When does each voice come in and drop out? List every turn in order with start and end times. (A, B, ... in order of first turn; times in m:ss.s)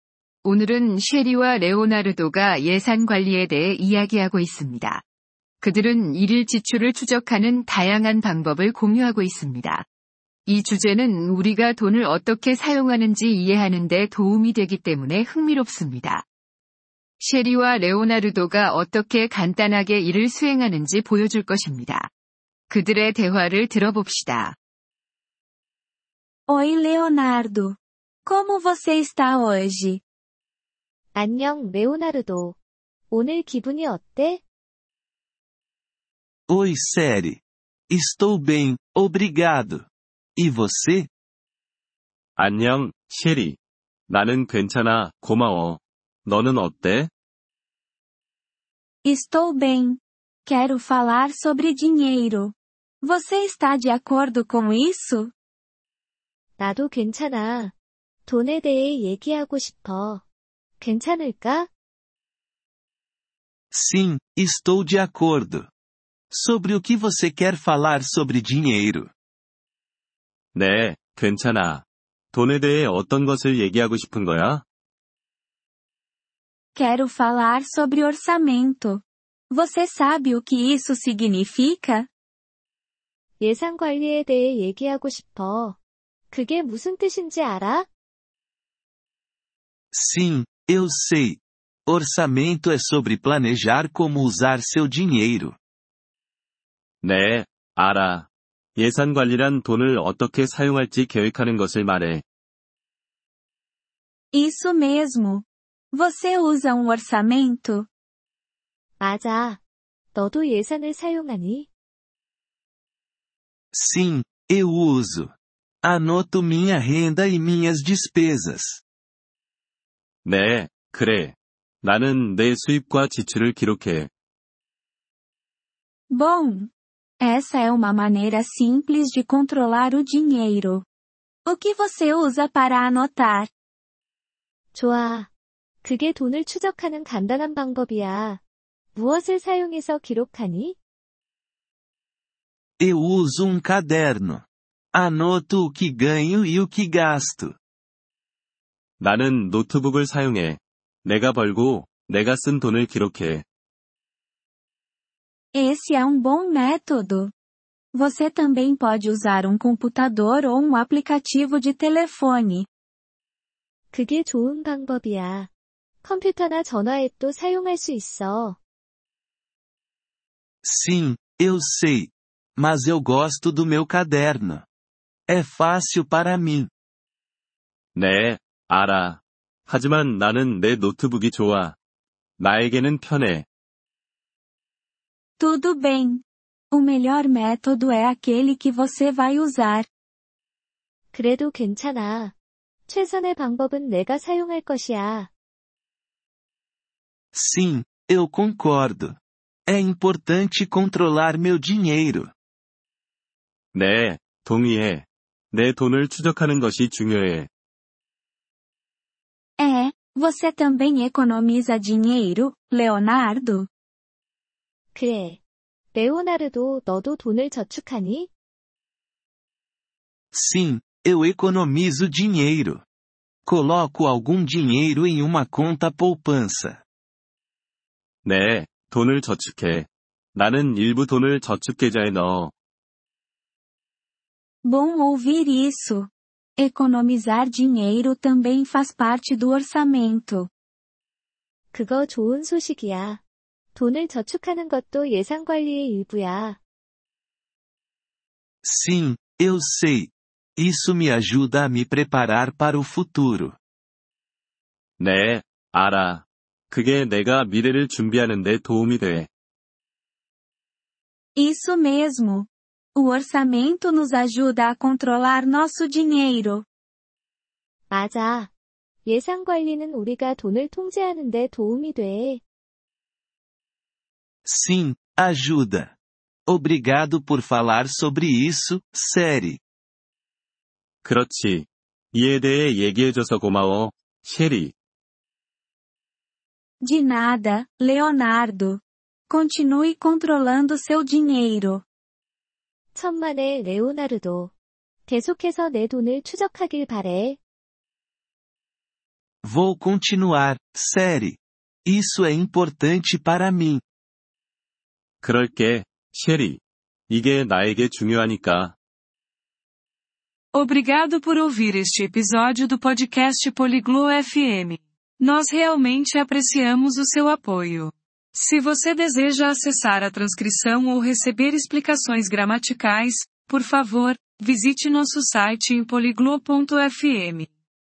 0:00.4-0:05.0 A
0:05.6-0:09.9 A
0:10.5-0:16.3 A
0:17.2-0:22.1 A
0:22.7-0:24.6 A
0:26.5-0:30.0 B
0:31.2-0:32.6 C
0:33.1-0:34.4 C
0:36.5-0:41.1 D
0:42.4-0:43.6 E
0:44.1-0:47.1 E
0:49.0-0:55.3 B
0:56.6-0:57.7 C
0:58.3-1:00.2 C
1:00.8-1:01.7 C
1:03.7-1:05.7 D
1:06.3-1:09.1 D
1:10.5-1:14.6 E
1:16.7-1:22.1 B
1:23.4-1:25.8 C
1:26.3-1:27.9 C
1:29.9-1:35.6 D
1:37.0-1:42.2 E
1:44.3-1:47.9 B
1:49.0-1:49.6 C
1:50.1-1:51.7 C
1:53.7-1:58.8 D
2:00.2-2:04.1 E
2:06.1-2:10.9 B
2:11.5-2:13.5 B
2:14.7-2:15.3 C
2:15.8-2:18.4 C
2:19.0-2:20.8 C
2:22.8-2:27.6 D
2:29.0-2:33.4 E
2:35.5-2:37.3 B
2:37.9-2:42.7 B
2:43.9-2:45.5 C
2:46.0-2:48.6 C
2:50.6-2:54.7 D
2:55.3-2:56.7 D
2:58.0-3:01.8 E
3:02.4-3:03.5 E
3:05.4-3:09.9 B
3:11.1-3:12.3 C
3:12.9-3:15.3 C
3:17.3-3:22.3 D
3:23.7-3:27.5 E
3:29.6-3:33.7 B
3:35.0-3:35.4 C
3:35.9-3:38.3 C
3:40.3-3:42.8 D
3:43.4-3:46.8 D
3:48.2-3:52.5 E
3:54.6-4:00.5 B
4:01.7-4:03.2 C
4:03.8-4:06.6 C
4:08.6-4:13.6 D
4:15.0-4:19.3 E
4:21.4-4:26.7 B
4:27.9-4:28.5 C
4:29.1-4:32.4 C
4:34.4-4:35.9 D
4:36.5-4:39.6 D
4:41.0-4:44.8 E
4:46.8-4:51.9 B
4:52.9-4:54.5 C
4:55.1-4:57.4 C
4:59.4-5:03.8 D
5:05.2-5:08.8 E
5:10.5-5:27.5 F